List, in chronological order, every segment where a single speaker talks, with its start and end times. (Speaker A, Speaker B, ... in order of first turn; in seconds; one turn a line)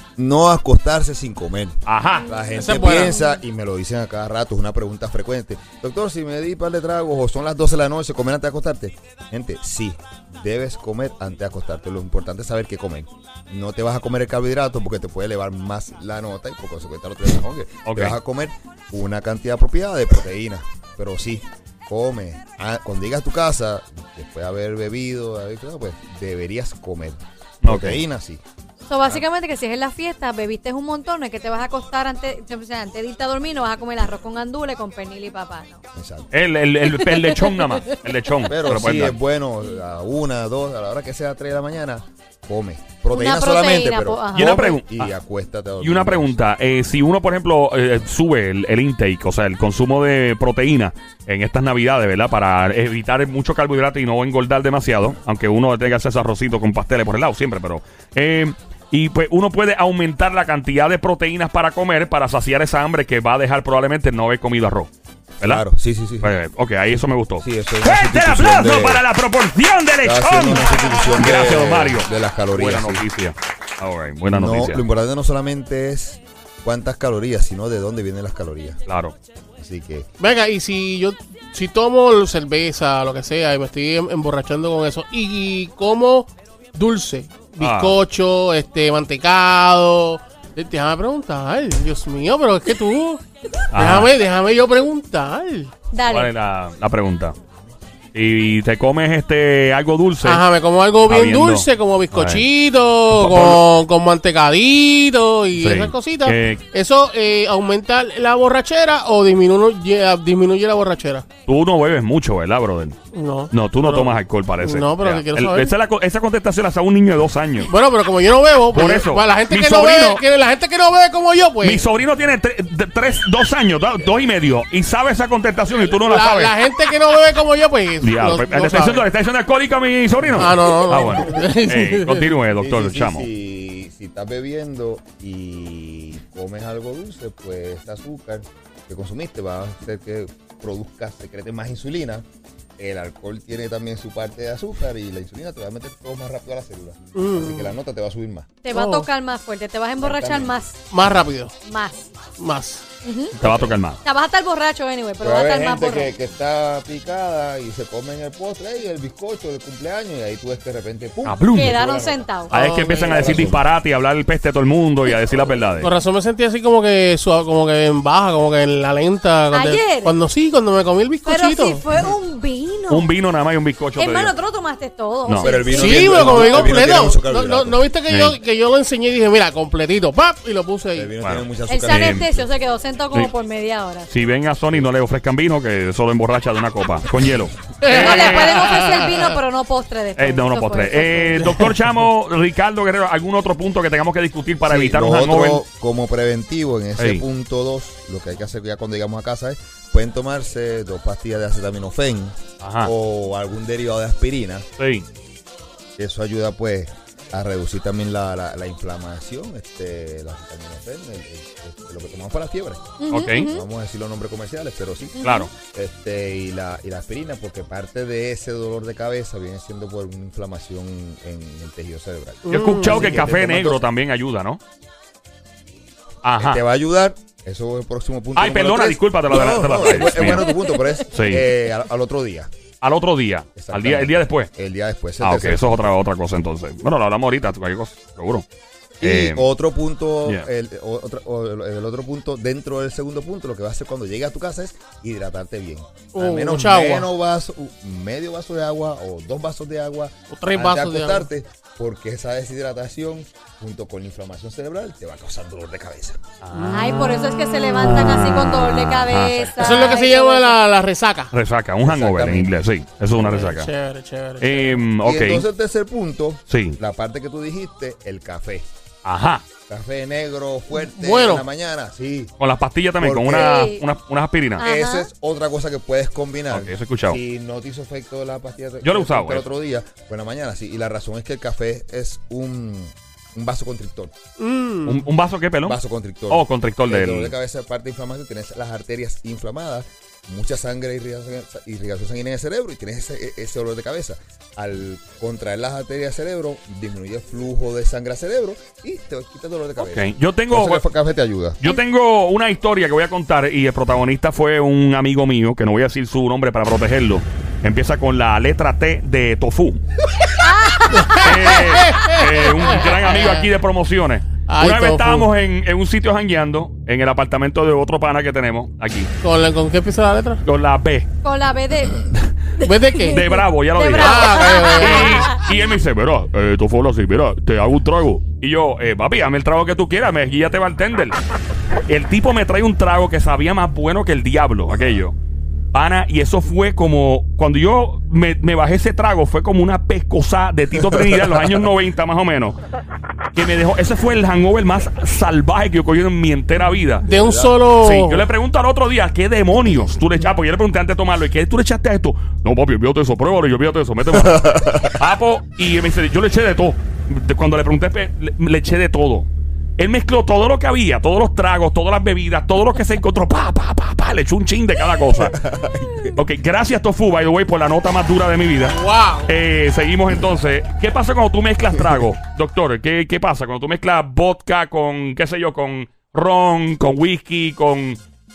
Speaker A: 0.2-28.4
Speaker B: 1.9-2.3
Speaker C: 2.3-3.2
Speaker D: 2.6-3.1
Speaker B: 17.9-18.2
Speaker B: 27.6-28.0
Speaker C: 28.9-35.8
Speaker A: 36.0-36.3
Speaker B: 36.3-39.2
Speaker A: 38.5-46.4
Speaker C: 43.1-44.8
Speaker B: 44.4-45.1
Speaker B: 45.8-64.9
Speaker A: 65.4-66.3
Speaker B: 66.2-74.8
Speaker A: 67.4-69.0
Speaker A: 70.0-73.0
Speaker A: 74.3-78.8
Speaker B: 78.9-79.2
Speaker A: 79.6-80.1
Speaker D: 80.2-93.2
Speaker B: 87.6-88.0
Speaker B: 93.7-94.1
Speaker D: 93.8-95.7
Speaker C: 95.9-96.3
Speaker B: 96.1-97.3
Speaker B: 98.1-100.4
Speaker D: 100.2-111.2
Speaker B: 101.0-102.5
Speaker B: 103.1-103.6
Speaker B: 105.6-106.6
Speaker B: 111.5-113.0
Speaker D: 113.1-115.7
Speaker B: 113.5-117.7
Speaker D: 117.7-121.8
Speaker B: 118.7-120.2
Speaker B: 121.6-126.5
Speaker D: 126.1-129.1
Speaker B: 128.0-133.3
Speaker D: 130.3-132.3
Speaker A: 132.6-142.2
Speaker A: 142.8-149.1
Speaker D: 147.2-147.7
Speaker C: 148.6-150.8
Speaker A: 150.0-150.6
Speaker D: 150.9-151.6
Speaker C: 151.6-152.1
Speaker D: 152.4-152.8
Speaker C: 153.0-153.4
Speaker B: 153.4-154.0
Speaker C: 154.0-156.1
Speaker A: 155.2-162.3
Speaker B: 161.2-161.8
Speaker C: 161.5-162.5
Speaker D: 162.5-163.5
Speaker B: 162.5-165.9
Speaker A: 163.0-163.6
Speaker D: 165.8-171.8
Speaker C: 169.5-170.2
Speaker C: 171.3-173.1
Speaker B: 172.9-174.4
Speaker C: 174.0-176.8
Speaker B: 175.3-175.5
Speaker A: 175.4-177.8
Speaker D: 175.7-181.1
Speaker B: 178.1-178.4
Speaker A: 180.9-182.5
Speaker B: 181.2-182.3
Speaker C: 181.7-184.1
Speaker B: 184.1-188.6
Speaker D: 187.8-189.3
Speaker C: 187.9-191.5
Speaker B: 190.2-195.6
Speaker D: 191.4-191.7
Speaker A: 194.6-204.7
Speaker B: 197.0-197.2
Speaker B: 202.6-202.9
Speaker B: 204.8-205.1
Speaker A: 206.0-223.9
Speaker C: 213.0-213.7
Speaker B: 213.1-213.5
Speaker C: 215.2-215.5
Speaker B: 215.2-215.5
Speaker D: 222.5-223.2
Speaker B: 222.5-224.6
Speaker B: 226.2-226.6
Speaker A: 226.4-232.5
Speaker B: 228.3-230.5
Speaker B: 231.1-231.4
Speaker B: 232.8-234.5
Speaker A: 233.6-235.9
Speaker B: 235.2-238.4
Speaker A: 239.0-256.2
Speaker B: 239.0-239.4
Speaker D: 246.1-247.1
Speaker D: 250.3-251.3
Speaker B: 256.4-256.9
Speaker D: 256.6-257.2
Speaker C: 256.7-260.6
Speaker B: 257.8-259.4
Speaker A: 259.3-259.9
Speaker D: 259.6-261.3
Speaker B: 261.3-263.7
Speaker A: 261.8-262.5
Speaker D: 263.2-264.8
Speaker B: 264.4-265.5
Speaker A: 265.0-268.7
Speaker B: 266.5-266.8
Speaker B: 269.0-269.4
Speaker A: 269.7-272.3
Speaker D: 270.7-271.4
Speaker B: 272.4-274.7
Speaker A: 273.0-273.6
Speaker C: 273.3-273.8
Speaker C: 274.6-275.1
Speaker A: 274.6-284.1
Speaker B: 276.5-277.2
Speaker B: 278.8-279.5
Speaker D: 284.4-285.0
Speaker B: 284.9-287.3
Speaker A: 285.6-301.6
Speaker B: 299.8-300.8
Speaker B: 301.6-309.8
Speaker C: 310.4-311.3
Speaker D: 310.9-313.5
Speaker B: 311.2-319.1
Speaker D: 314.5-315.3
Speaker D: 319.2-320.4
Speaker B: 320.4-321.1
Speaker C: 321.2-325.4
Speaker D: 322.6-323.3
Speaker B: 323.1-331.2
Speaker D: 324.0-325.4
Speaker B: 331.9-335.2
Speaker B: 335.7-342.6
Speaker A: 340.9-341.2
Speaker B: 343.3-347.1
Speaker A: 347.0-347.6
Speaker D: 347.0-348.3
Speaker B: 347.7-365.4
Speaker A: 354.1-355.0
Speaker A: 365.2-366.2
Speaker B: 366.1-378.0
Speaker D: 368.7-369.3